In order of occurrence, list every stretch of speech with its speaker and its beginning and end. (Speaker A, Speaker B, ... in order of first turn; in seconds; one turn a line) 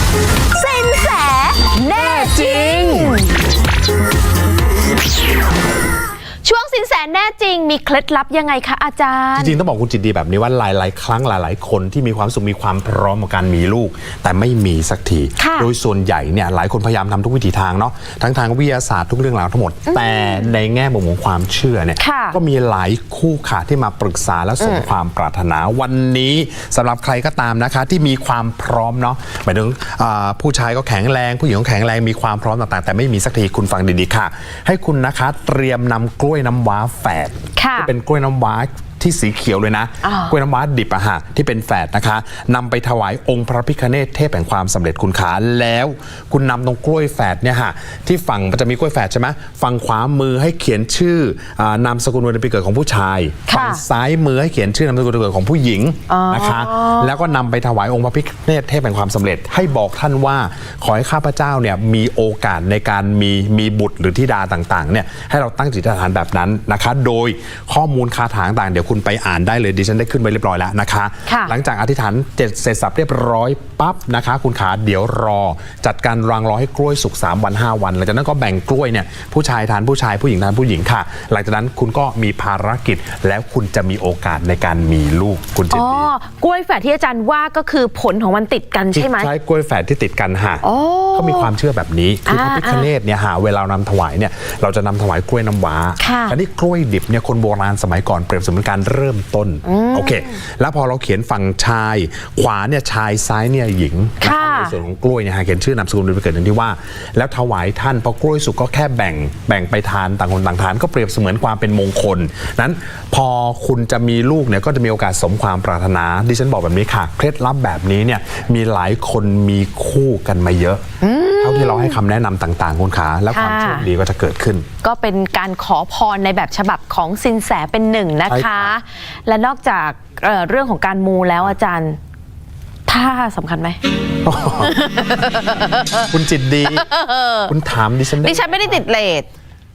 Speaker A: 0.5-3.3
Speaker B: 1.9-3.2
Speaker A: 6.4-9.6
Speaker B: 9.3-86.1
Speaker A: 15.4-15.7
Speaker A: 19.9-20.5
Speaker A: 22.0-22.4
Speaker A: 24.6-24.9
Speaker A: 37.5-37.9
Speaker A: 40.0-40.3
Speaker A: 53.5-53.8
Speaker A: 56.1-57.2
Speaker A: 71.3-71.5
Speaker A: 85.7-89.3
Speaker B: 88.9-90.6
Speaker A: 90.6-91.5
Speaker B: 91.1-120.8
Speaker A: 92.3-92.9
Speaker A: 96.0-96.3
Speaker A: 99.6-100.4
Speaker A: 104.2-104.8
Speaker A: 121.0-122.0
Speaker B: 121.4-124.7
Speaker A: 123.3-123.8
Speaker A: 124.8-132.0
Speaker B: 128.3-128.7
Speaker A: 132.9-133.8
Speaker B: 134.2-134.7
Speaker A: 134.4-136.1
Speaker B: 136.1-136.8
Speaker A: 136.6-137.5
Speaker B: 137.5-138.8
Speaker A: 138.2-139.3